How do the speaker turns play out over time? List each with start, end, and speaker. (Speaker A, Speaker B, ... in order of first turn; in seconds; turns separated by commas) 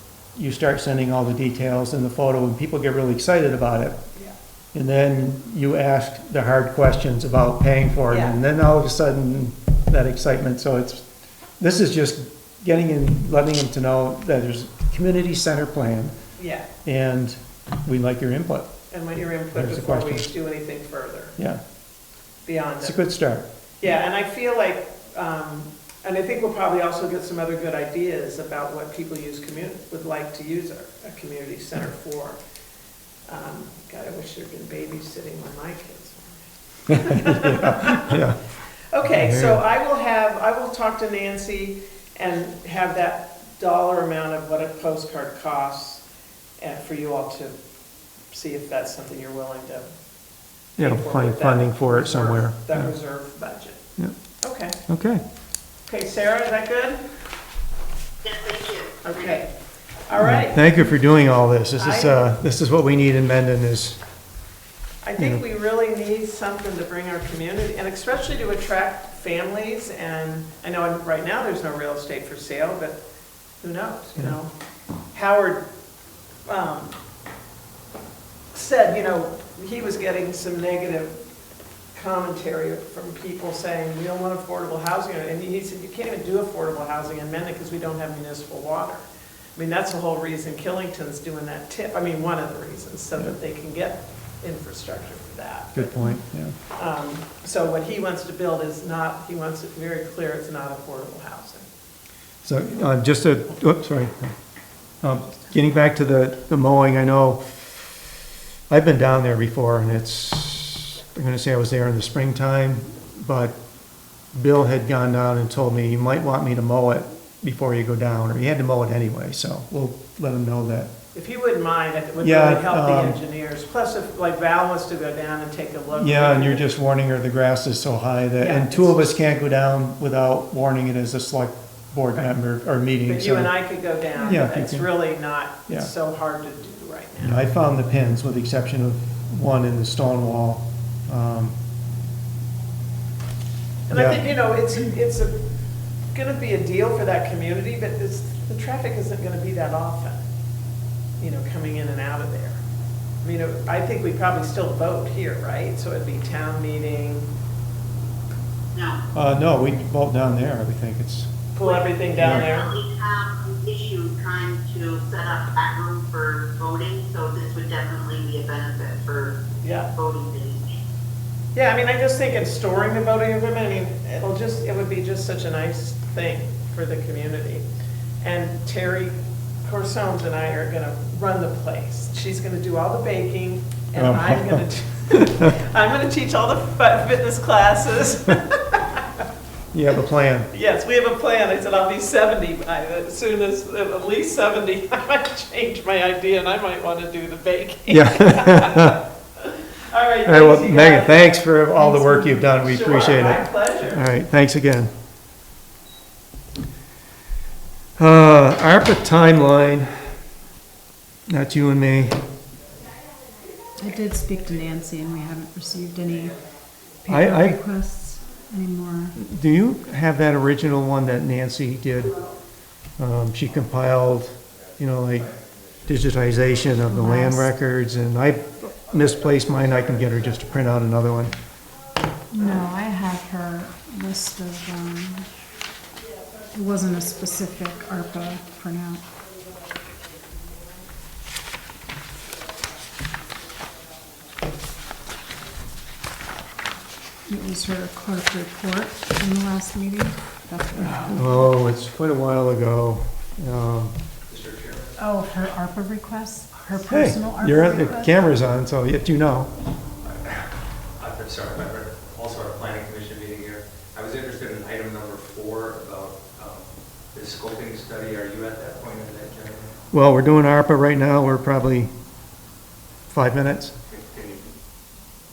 Speaker A: 0.3-4.0, Speaker A: 4.7-11.0, Speaker B: 8.1-8.4, Speaker A: 11.6-16.2, Speaker B: 16.4-16.7, Speaker A: 16.8-18.7, Speaker B: 18.9-21.4, Speaker A: 19.5-20.3, Speaker B: 22.4-23.1, Speaker A: 22.8-23.5, Speaker B: 23.8-32.4, Speaker B: 33.3-38.2, Speaker A: 36.9-38.4, Speaker B: 38.9-46.0, Speaker A: 39.0-39.6, Speaker B: 46.6-47.5, Speaker B: 48.3-49.9, Speaker A: 50.8-52.9, Speaker B: 50.8-53.8, Speaker B: 54.4-54.8, Speaker A: 54.9-55.2, Speaker B: 55.9-57.0, Speaker C: 58.2-59.0, Speaker B: 59.0-59.5, Speaker B: 60.1-60.6, Speaker A: 60.1-64.0, Speaker B: 61.8-62.2, Speaker B: 65.0-73.0, Speaker A: 65.2-65.4, Speaker B: 73.6-74.5, Speaker B: 75.1-75.7, Speaker B: 76.5-76.9, Speaker B: 78.5-81.1, Speaker B: 81.9-89.0, Speaker B: 89.5-96.2, Speaker A: 95.7-96.5, Speaker B: 96.7-101.7, Speaker A: 102.4-104.3, Speaker A: 105.0-107.9, Speaker A: 108.7-113.5, Speaker A: 114.3-120.9, Speaker B: 121.1-126.7, Speaker A: 122.2-123.2, Speaker A: 125.9-133.5, Speaker B: 128.4-129.1, Speaker B: 133.1-137.4, Speaker A: 134.2-134.9, Speaker A: 137.2-141.5, Speaker B: 143.9-145.3, Speaker A: 143.9-144.3, Speaker B: 146.1-150.2, Speaker B: 151.2-152.6, Speaker B: 153.2-157.3, Speaker C: 158.7-159.0, Speaker A: 159.1-161.3, Speaker B: 161.5-162.7, Speaker C: 161.6-170.8, Speaker A: 162.2-162.4, Speaker B: 169.6-169.9, Speaker B: 171.5-177.6, Speaker B: 178.2-189.0, Speaker A: 183.9-184.6, Speaker A: 189.7-190.5, Speaker B: 190.5-201.3, Speaker A: 197.9-199.0, Speaker A: 200.2-204.9, Speaker D: 201.8-202.4, Speaker B: 202.6-204.0, Speaker A: 208.0-210.0, Speaker A: 211.3-212.2, Speaker D: 213.8-216.4, Speaker D: 217.0-219.2, Speaker A: 217.1-217.6, Speaker A: 219.2-222.2, Speaker A: 223.0-225.3, Speaker E: 225.2-225.9, Speaker A: 225.9-231.3, Speaker D: 226.8-227.5, Speaker D: 232.3-235.3, Speaker D: 236.5-239.0, Speaker D: 247.3-251.3, Speaker A: 250.8-253.9, Speaker E: 254.3-255.0, Speaker D: 255.0-258.2, Speaker A: 256.9-259.5, Speaker E: 260.0-269.7, Speaker A: 269.9-271.9, Speaker A: 273.1-273.7, Speaker E: 273.9-274.6